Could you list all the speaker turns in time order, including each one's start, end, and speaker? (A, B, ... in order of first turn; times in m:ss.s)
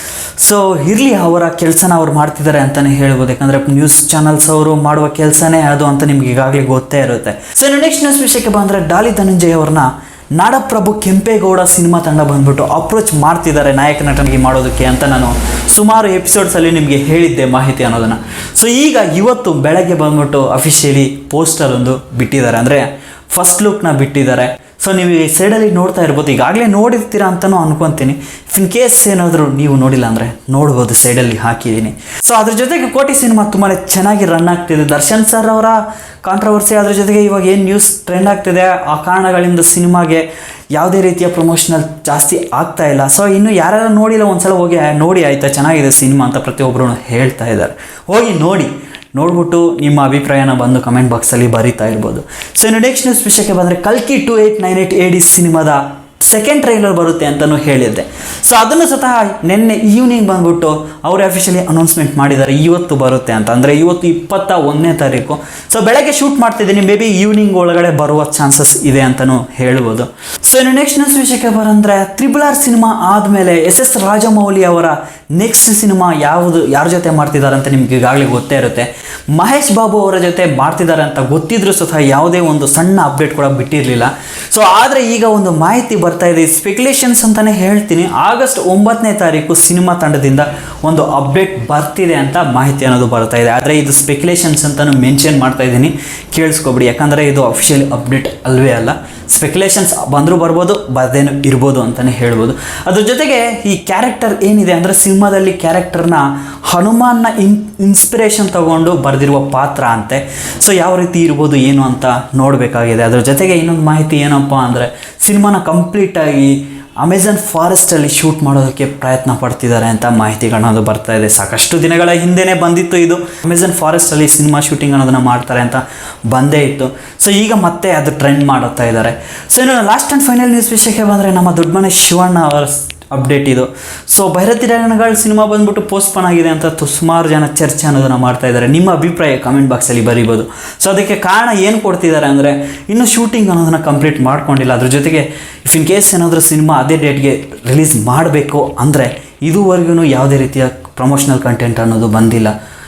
0:00.4-2:32.5 A